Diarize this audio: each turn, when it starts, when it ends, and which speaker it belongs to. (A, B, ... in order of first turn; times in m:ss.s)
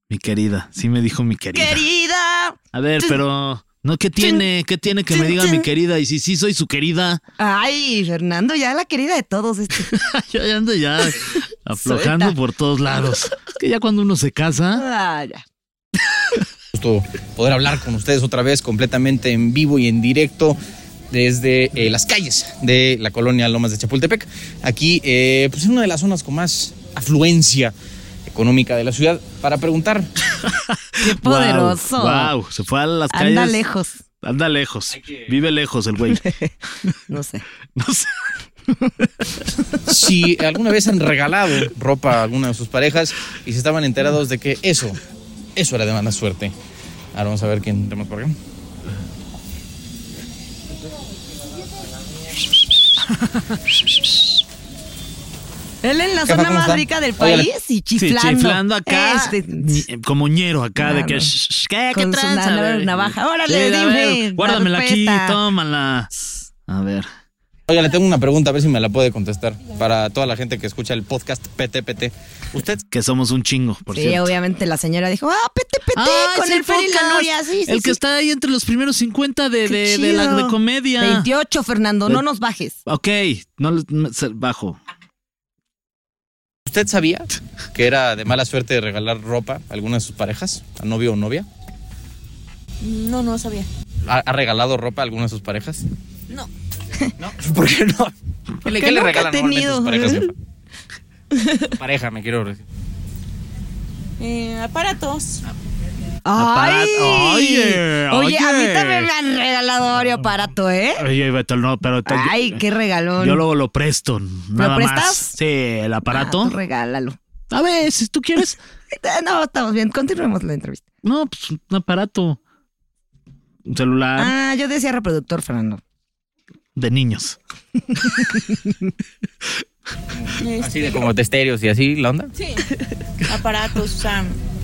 0:00.1-0:01.8 A
0:01.5-0:03.2 B
0:02.7-0:07.2 A
0:04.2-0:04.4 B
0:05.1-0:05.7 B
0:07.4-0:10.0 B
0:09.9-0:14.8 A
0:11.8-0:12.4 B
0:14.7-0:15.4 B
0:16.7-0:20.6 C
0:21.1-0:27.7 C
0:28.3-0:30.1 C
0:30.4-0:33.6 A
0:31.0-0:32.3 B
0:33.1-0:34.0 B
0:34.2-0:36.2 A
0:36.2-0:36.5 B
0:37.1-0:37.4 B
0:37.8-0:38.3 A
0:39.8-0:45.0 C
0:45.6-0:46.5 C
0:47.1-0:48.4 C
0:55.8-0:59.8 B
0:56.2-0:57.5 C
0:58.0-1:06.1 A
1:00.8-1:01.3 B
1:01.9-1:05.4 B
1:06.7-1:07.1 A
1:07.7-1:12.8 C
1:12.9-1:14.3 A
1:13.9-1:18.0 B
1:15.9-1:21.3 A
1:19.6-1:22.8 B
1:22.8-1:24.8 A
1:26.6-1:31.4 C
1:32.8-1:33.7 D
1:34.0-1:35.8 C
1:37.2-1:40.3 C
1:38.6-1:40.3 B
1:41.3-1:41.7 B
1:41.8-1:42.6 C
1:44.2-1:45.4 D
1:46.2-1:51.0 B
1:46.3-1:49.1 A
1:51.0-1:52.6 A
1:52.0-1:53.4 B
1:53.2-1:56.6 A
1:54.6-1:55.4 B
1:56.1-1:57.2 B
1:57.5-1:58.6 A
1:58.9-2:00.8 B
2:01.0-2:02.4 A
2:03.7-2:04.3 A
2:04.2-2:05.8 B
2:06.8-2:07.4 A
2:08.0-2:08.4 B
2:10.2-2:12.3 C
2:10.4-2:11.1 D
2:12.4-2:12.7 D
2:13.2-2:14.4 D